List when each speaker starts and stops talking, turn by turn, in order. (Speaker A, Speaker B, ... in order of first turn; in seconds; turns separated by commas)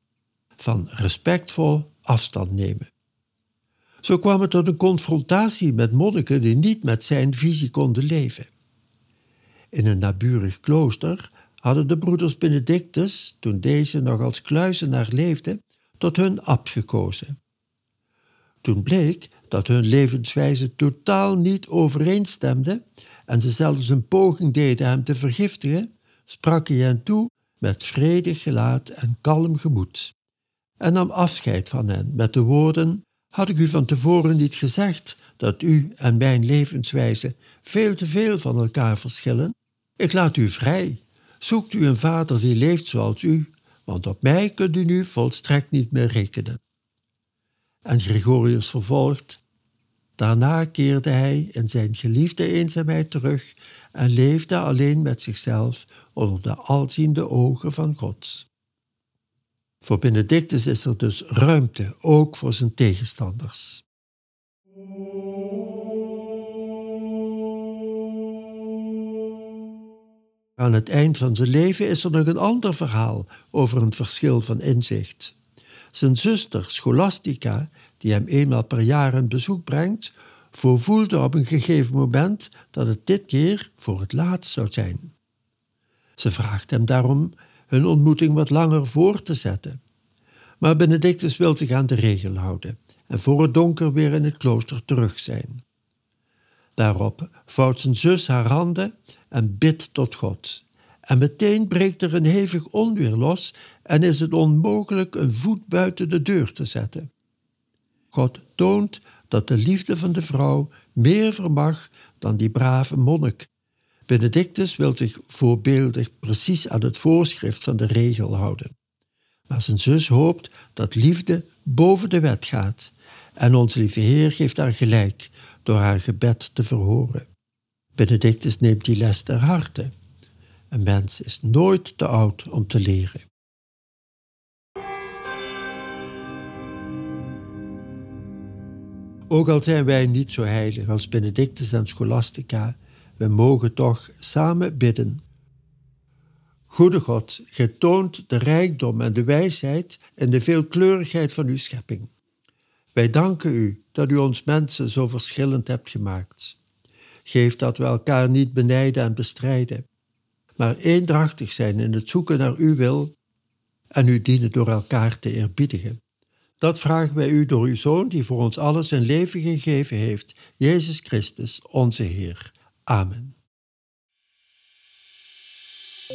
Speaker A: 0.6-2.9, Speaker A: 4.0-8.5, Speaker A: 9.7-17.4, Speaker A: 18.6-30.1, Speaker A: 30.8-46.6, Speaker A: 47.8-49.4, Speaker A: 50.2-58.5, Speaker A: 59.8-63.8, Speaker A: 70.6-75.4, Speaker A: 75.9-85.1, Speaker A: 86.2-89.8, Speaker A: 90.6-95.6, Speaker A: 96.8-107.1, Speaker A: 108.1-113.5, Speaker A: 114.1-118.7, Speaker A: 119.5-127.3, Speaker A: 128.0-129.9, Speaker A: 130.7-133.3, Speaker A: 139.3-145.2, Speaker A: 146.7-152.1, Speaker A: 152.9-156.6, Speaker A: 157.2-159.9, Speaker A: 160.6-163.1, Speaker A: 163.9-166.0, Speaker A: 166.6-173.4